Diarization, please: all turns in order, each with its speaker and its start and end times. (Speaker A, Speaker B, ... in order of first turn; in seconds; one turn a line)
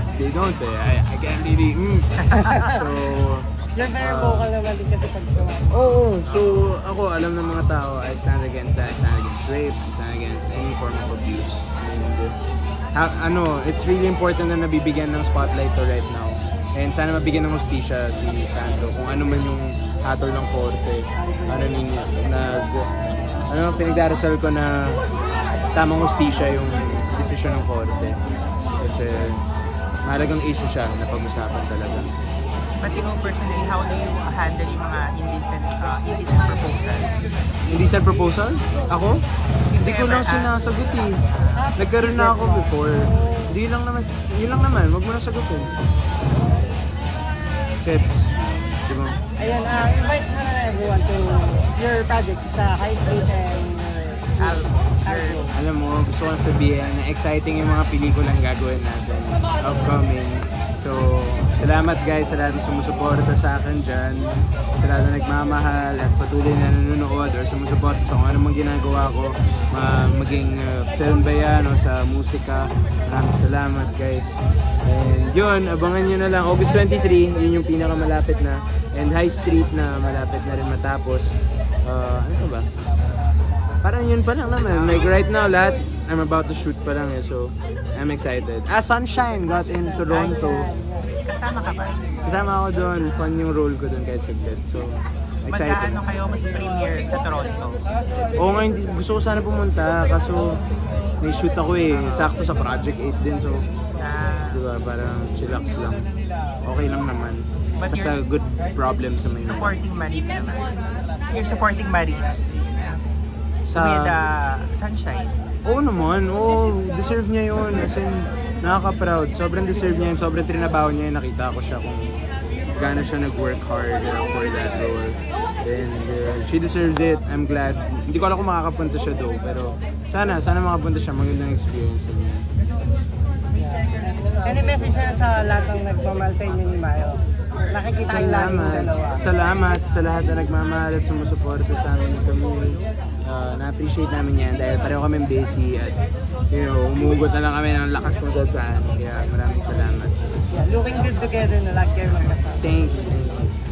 Speaker A: 0.1-4.5
Speaker B: 2.5-2.8
Speaker B: 3.7-6.0
Speaker A: 5.7-12.3
Speaker C: 6.2-6.7
Speaker A: 12.9-22.9
Speaker B: 21.2-21.8
Speaker A: 23.5-25.0
Speaker A: 25.7-28.2
Speaker A: 28.8-29.4
Speaker A: 30.0-32.1
Speaker C: 32.8-37.1
Speaker A: 37.7-39.2
Speaker C: 39.6-40.5
Speaker A: 39.8-41.1
Speaker C: 41.2-41.6
Speaker B: 41.5-43.5
Speaker A: 41.8-45.7
Speaker A: 47.8-49.2
Speaker B: 49.4-55.5
Speaker C: 54.4-55.5
Speaker A: 55.5-82.7
Speaker A: 83.8-90.7
Speaker C: 84.6-85.1
Speaker B: 89.2-91.2
Speaker C: 90.0-90.5
Speaker C: 91.2-92.0
Speaker A: 92.2-96.0
Speaker C: 95.5-97.9
Speaker A: 98.3-100.5
Speaker A: 101.2-103.6
Speaker C: 101.9-102.4
Speaker C: 104.0-104.6
Speaker A: 104.5-106.1
Speaker A: 106.6-109.8
Speaker C: 107.8-108.2
Speaker C: 109.4-113.1
Speaker A: 113.7-114.1
Speaker C: 113.7-115.3
Speaker A: 115.6-122.2
Speaker A: 122.7-132.5
Speaker B: 134.4-139.2
Speaker A: 137.9-146.0
Speaker A: 146.5-150.1
Speaker B: 150.5-152.7
Speaker A: 152.6-153.5